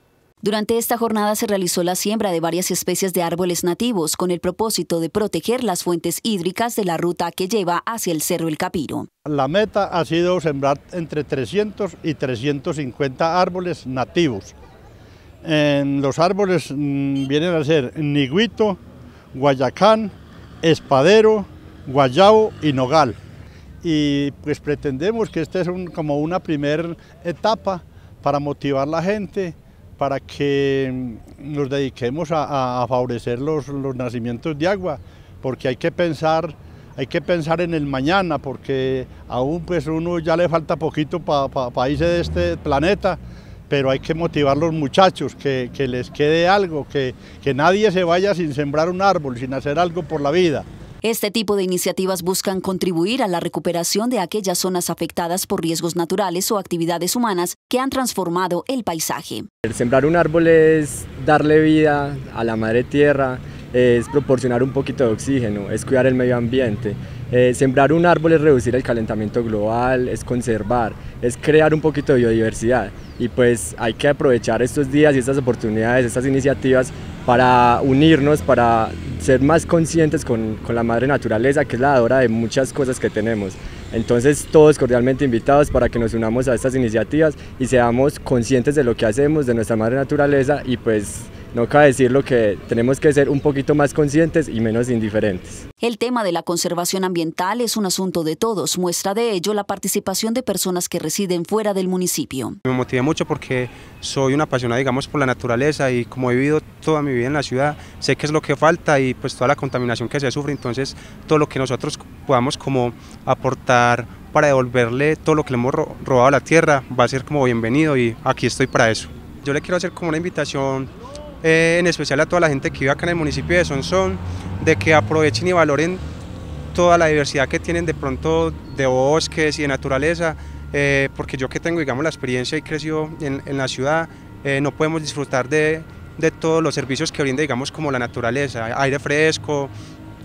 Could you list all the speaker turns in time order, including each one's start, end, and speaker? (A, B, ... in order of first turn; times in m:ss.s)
0:00.4-0:09.1 A
0:09.3-0:14.6 B
0:15.4-0:18.8 B
0:19.3-0:23.2 B
0:23.8-0:50.6 B
0:51.0-0:59.5 A
0:59.6-1:35.6 C
1:35.8-1:42.6 A
1:42.7-2:00.9 D
2:01.4-2:06.0 D
2:06.7-2:19.7 D